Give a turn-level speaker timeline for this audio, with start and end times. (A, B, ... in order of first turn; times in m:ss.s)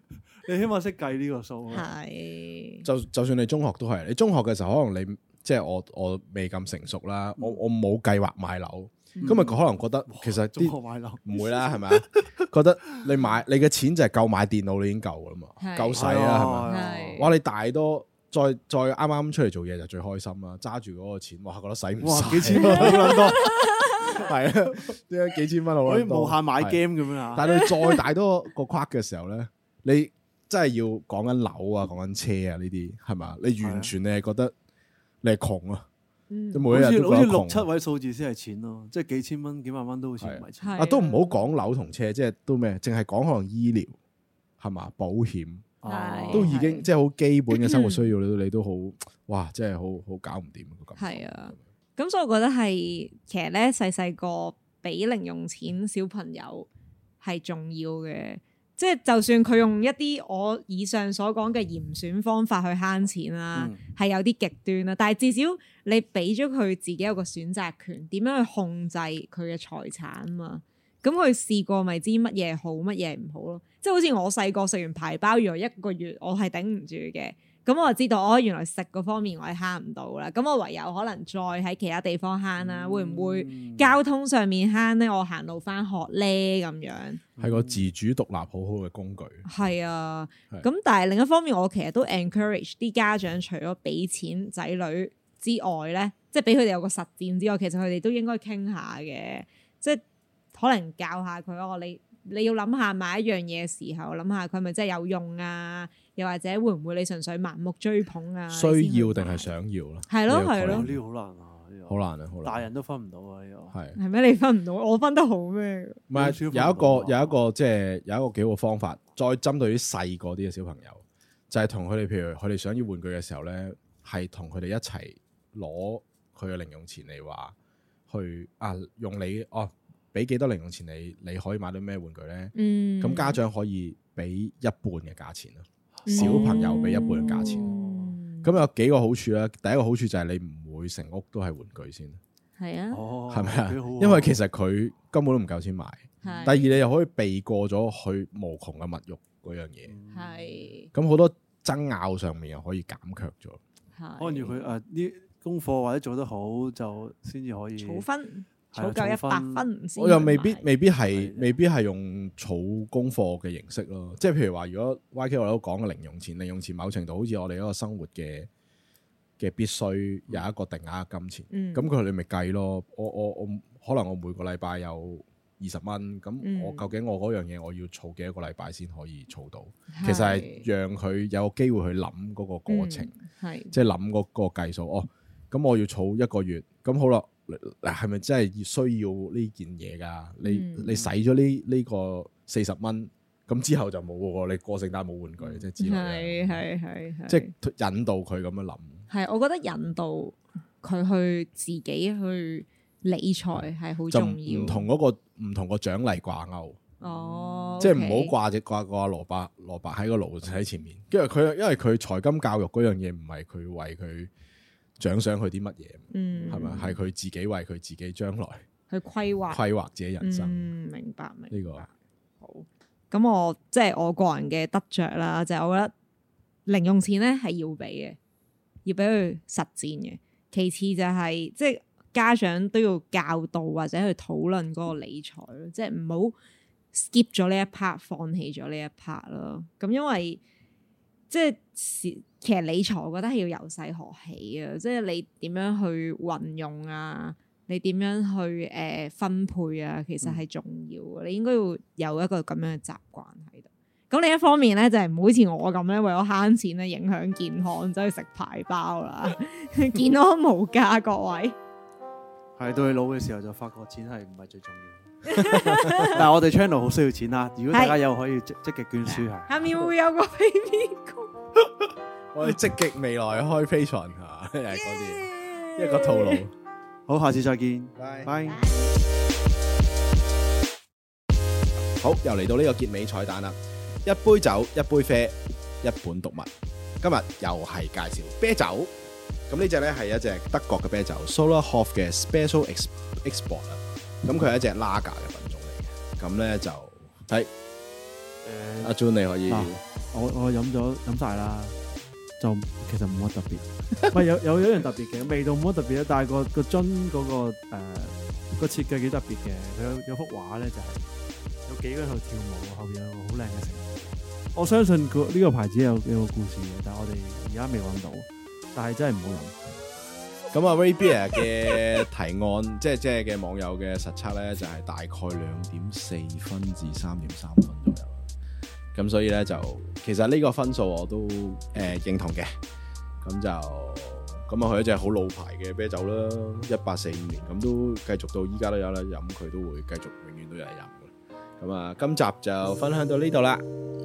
0:00.4-0:01.9 A
0:01.7-0:02.9 B
0:02.8-0:26.8 C
0:09.2-0:09.6 B
0:09.2-0:09.5 A
0:10.1-0:12.4 A
0:15.6-0:16.1 B
0:16.0-0:17.3 A
0:16.7-0:17.3 B
0:22.0-0:23.5 A
0:22.6-0:24.2 B
0:25.8-0:27.5 A
0:27.3-0:34.5 C
0:27.4-0:28.0 B
0:33.6-0:33.9 A
0:35.2-0:35.9 C
0:36.3-0:36.6 B
0:36.5-0:37.7 C
0:36.7-0:40.8 A
0:40.2-0:44.0 C
0:40.6-0:41.4 B
0:44.6-0:45.7 C
0:45.8-0:46.5 A
0:45.8-0:46.9 B
0:46.3-0:51.6 C
0:47.5-0:48.1 B
0:51.0-0:56.7 B
0:57.2-1:27.2 B
1:03.6-1:03.8 A
1:22.6-1:24.0 A
1:27.4-1:27.9 A
1:27.4-1:29.4 C
1:29.4-1:40.0 B
1:40.5-1:49.5 B
1:48.5-1:50.9 C
1:50.1-1:50.9 B
1:50.6-1:53.7 A
1:51.9-1:52.6 C
1:54.0-1:56.0 B
1:56.1-2:07.6 C
1:56.1-1:57.4 A
2:08.1-2:17.8 C
2:12.6-2:13.4 B
2:16.1-2:18.5 B
2:16.1-2:18.2 A
2:18.4-2:22.2 C
2:22.6-2:23.0 B
2:22.9-2:24.4 A
2:23.3-2:29.9 C
2:26.2-2:26.6 B
2:26.2-2:26.8 A
2:29.9-2:30.7 A
2:30.1-2:30.9 B
2:30.9-2:33.6 C
2:34.0-2:34.6 B
2:34.2-2:38.0 A
2:37.8-2:40.6 B
2:38.7-2:39.7 A
2:40.0-2:48.5 C
2:41.1-2:41.5 A
2:49.4-3:03.1 C
2:51.5-2:51.9 B
2:56.4-2:56.9 B
2:59.9-3:00.7 B
3:02.7-3:03.7 B
3:03.7-3:16.6 C
3:10.4-3:10.9 B
3:15.4-3:15.7 A
3:15.8-3:17.5 B
3:17.3-3:19.0 C
3:19.1-3:24.9 B
3:24.1-3:26.8 C
3:27.0-3:28.3 B
3:27.0-3:27.8 A
3:27.8-3:34.3 C
3:35.0-3:38.6 C
3:36.1-3:37.0 B
3:36.4-3:36.8 A
3:38.9-3:39.6 B
3:39.5-3:40.7 C
3:40.2-3:45.9 B
3:41.5-3:41.9 C
3:46.7-3:48.2 B
3:48.8-3:56.4 B
3:56.9-4:00.4 B
4:01.3-4:21.6 B
4:22.6-4:25.3 A
4:25.2-4:26.3 B
4:25.4-4:26.1 C
4:26.0-4:29.9 A
4:27.7-4:28.0 B
4:29.1-4:31.3 B
4:32.3-4:36.5 C
4:34.7-4:36.4 B
4:37.1-4:38.6 A
4:38.0-4:38.3 C
4:38.5-4:38.9 B
4:42.0-4:48.9 C
4:49.5-4:57.5 C
4:58.4-4:58.9 A
4:58.8-4:59.8 C
4:59.5-5:01.8 A
5:02.4-5:11.0 A
5:11.7-5:13.9 A
5:14.6-5:19.6 A
5:20.5-5:28.3 C
5:28.9-5:32.5 C
5:33.2-5:43.6 C